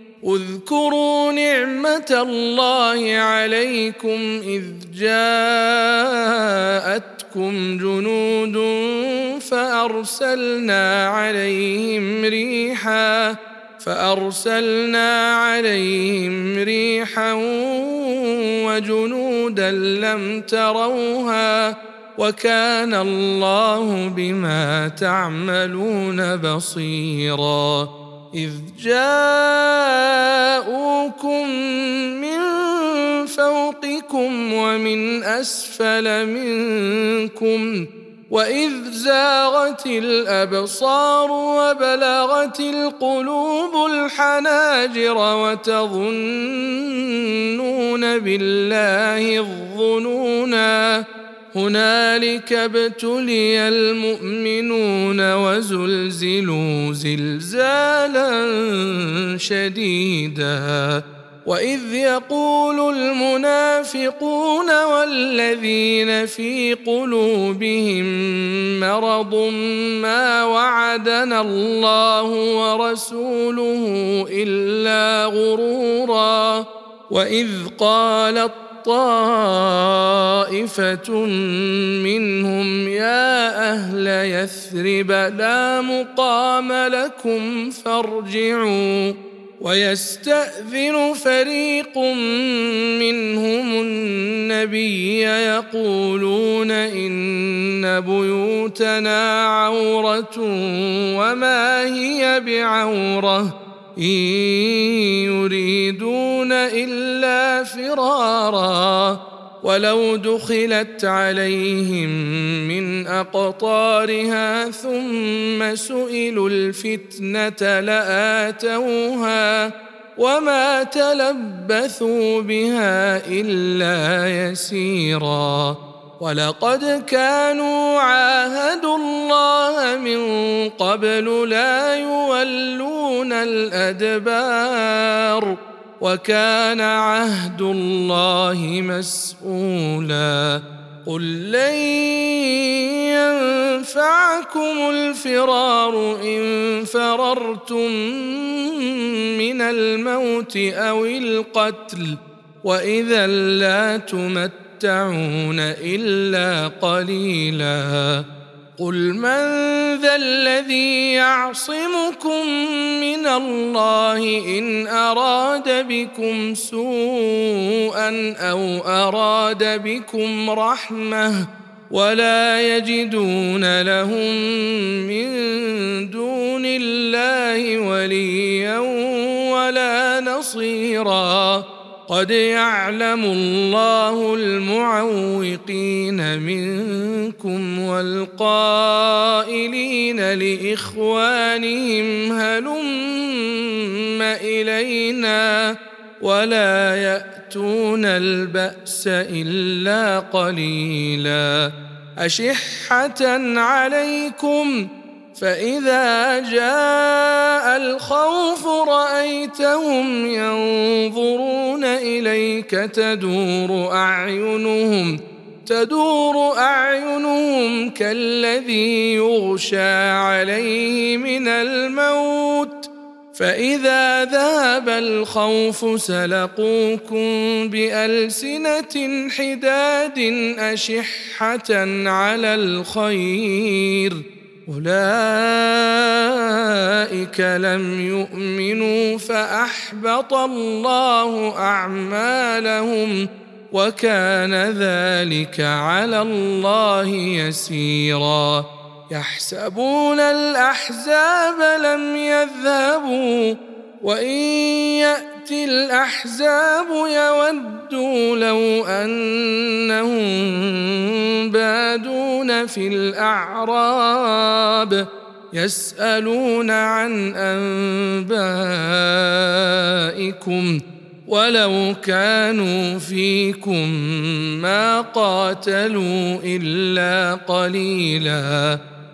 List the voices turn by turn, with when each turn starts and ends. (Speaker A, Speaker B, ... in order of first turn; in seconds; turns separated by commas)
Speaker A: 0.2-158.2, Speaker A: 158.8-201.7, Speaker A: 202.2-204.8, Speaker A: 205.3-265.0, Speaker A: 265.5-278.8